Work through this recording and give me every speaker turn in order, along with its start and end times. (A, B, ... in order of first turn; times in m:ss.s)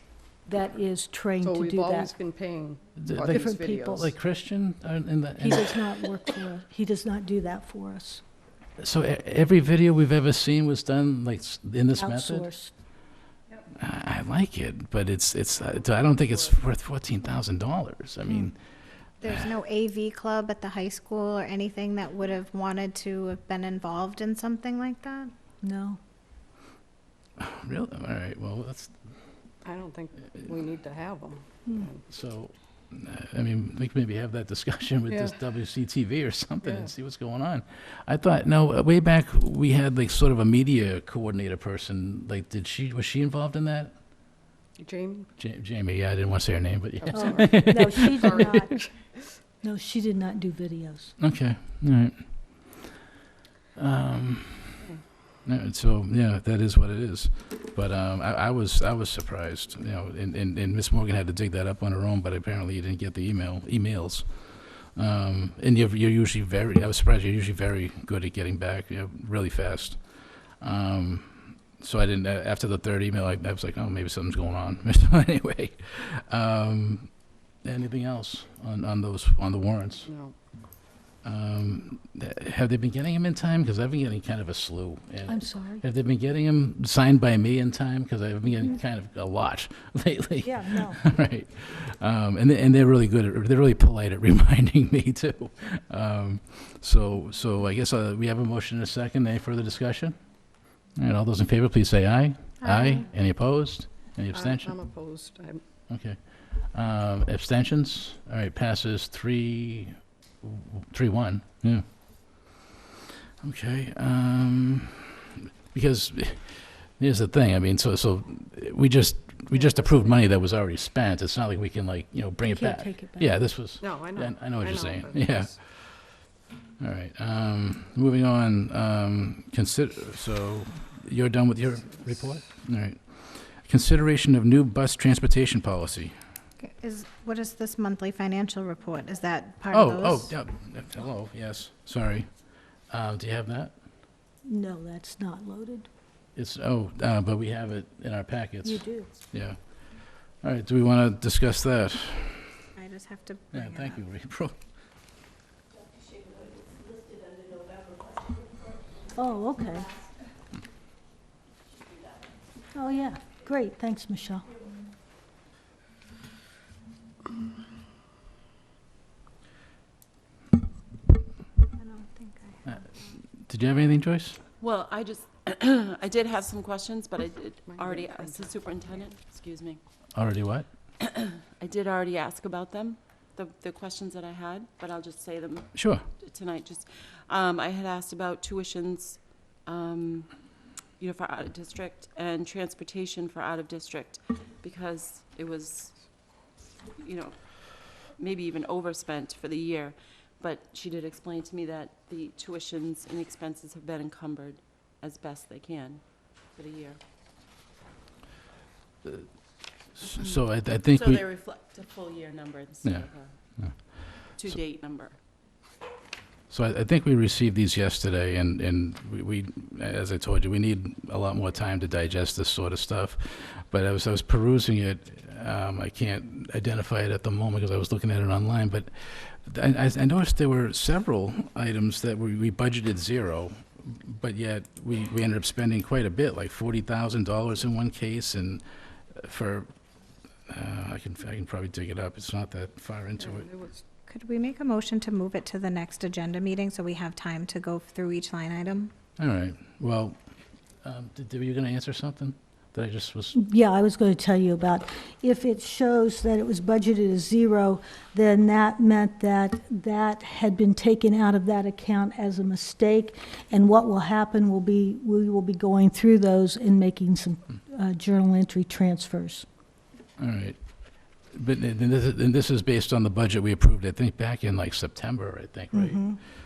0:00.4-0:02.1 A
0:01.4-0:04.1 B
0:03.0-0:05.8 C
0:03.3-0:04.1 A
0:05.4-0:08.2 A
0:08.8-0:12.5 C
0:12.0-0:12.7 A
0:13.8-0:18.6 C
0:19.2-0:25.3 D
0:25.6-0:26.0 A
0:27.4-0:29.0 C
0:29.6-0:32.0 B
0:32.1-0:44.0 C
0:35.1-0:35.4 B
0:36.6-0:36.9 B
0:44.8-0:45.3 B
0:45.4-0:48.6 C
0:47.0-0:48.8 B
0:47.1-0:48.7 A
0:49.6-0:51.2 A
0:51.2-0:52.2 C
0:53.8-0:54.8 C
0:55.5-1:10.0 C
1:10.6-1:20.1 C
1:20.0-1:20.3 B
1:21.2-1:40.2 C
1:25.3-1:25.8 A
1:30.4-1:31.1 A
1:40.9-1:44.8 C
1:42.6-1:43.0 D
1:44.3-1:45.6 B
1:45.9-1:51.8 C
1:53.4-2:06.0 C
1:59.5-2:00.1 A
2:02.4-2:03.4 A
2:03.8-2:05.6 B
2:06.8-2:16.1 C
2:16.6-2:20.3 D
2:19.7-2:22.3 C
2:22.9-2:23.8 C
2:24.4-2:25.9 A
2:26.4-2:32.5 C
2:28.6-2:29.1 A
2:32.8-2:34.0 D
2:33.5-2:34.6 C
2:39.2-2:40.0 A
2:42.7-2:44.5 A
2:51.8-2:52.8 D
2:52.7-2:54.4 C
2:54.6-2:59.8 E
2:57.7-2:58.6 B
3:00.1-3:00.7 C
3:01.0-3:10.3 E
3:05.7-3:06.0 C
3:11.0-3:16.0 E
3:17.0-3:27.0 E
3:30.0-3:31.2 C
3:30.8-3:33.8 E
3:34.3-3:35.2 E
3:36.5-3:59.7 C
4:00.5-4:03.5 C
4:03.2-4:03.8 B
4:04.1-4:08.9 D
4:09.2-4:10.2 C
4:10.8-4:13.3 C
4:13.3-4:29.5 A
4:30.2-4:30.6 C
4:31.3-4:36.0 C
4:35.7-4:36.2 A